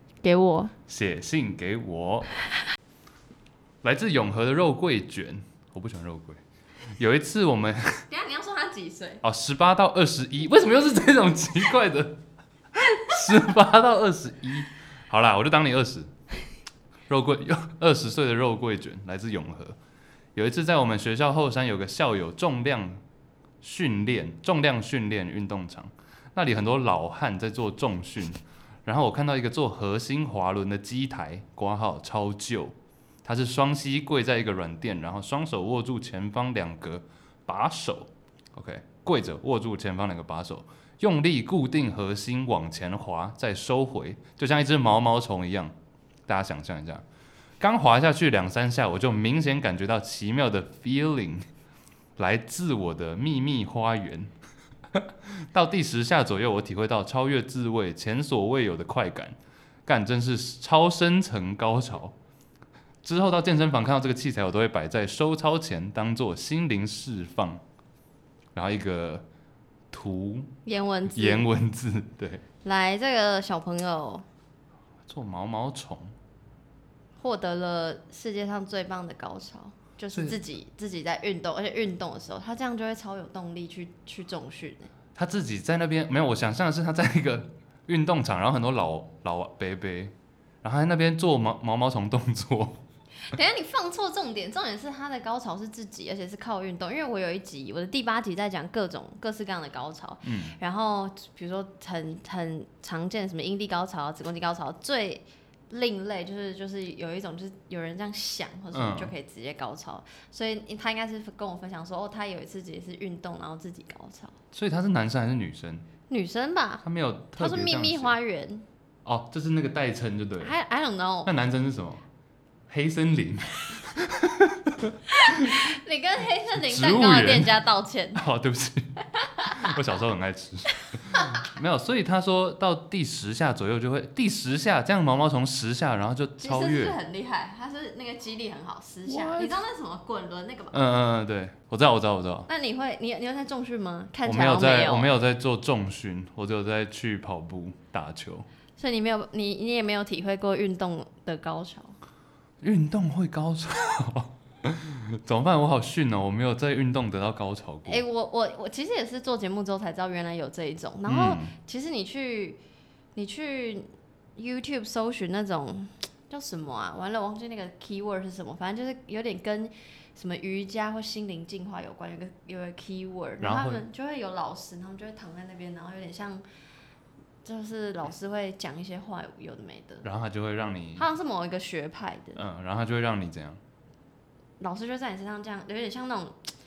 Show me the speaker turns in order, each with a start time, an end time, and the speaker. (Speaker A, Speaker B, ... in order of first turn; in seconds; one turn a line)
Speaker A: 0.2-0.7
Speaker B: 0.9-2.3
Speaker B: 3.8-6.4
Speaker B: 7.0-8.0
Speaker A: 8.1-9.2
Speaker B: 9.2-12.2
Speaker B: 12.8-16.1
Speaker B: 17.1-19.8
Speaker B: 20.4-23.0
Speaker B: 23.6-45.7
Speaker B: 46.3-47.0
Speaker B: 47.6-51.5
Speaker B: 52.2-54.3
Speaker B: 54.9-62.1
Speaker B: 63.0-67.6
Speaker B: 68.5-69.2
Speaker B: 69.9-70.5
Speaker A: 70.7-71.5
Speaker B: 71.1-72.4
Speaker A: 72.6-74.2
Speaker B: 75.1-76.1
Speaker A: 77.2-84.9
Speaker B: 80.1-80.4
Speaker B: 85.2-92.8
Speaker A: 93.2-114.3
Speaker B: 100.2-100.5
Speaker B: 108.7-109.1
Speaker B: 114.5-115.9
Speaker A: 116.1-116.8
Speaker B: 116.8-118.2
Speaker A: 117.4-118.7
Speaker B: 119.0-120.6
Speaker A: 120.4-121.3
Speaker B: 121.2-122.0
Speaker B: 122.7-125.6
Speaker A: 125.1-128.2
Speaker B: 126.5-127.6
Speaker B: 128.2-137.0
Speaker A: 129.2-129.7
Speaker A: 136.4-140.8
Speaker B: 139.1-139.6
Speaker B: 140.7-142.5
Speaker A: 142.5-145.1
Speaker B: 144.2-148.5
Speaker A: 148.8-151.9
Speaker B: 152.6-158.0
Speaker A: 157.9-162.6
Speaker B: 161.1-161.5
Speaker A: 163.2-176.4
Speaker B: 173.4-173.8
Speaker A: 177.4-180.1
Speaker B: 180.0-181.1
Speaker A: 181.0-182.4
Speaker B: 182.4-183.6
Speaker A: 184.6-186.4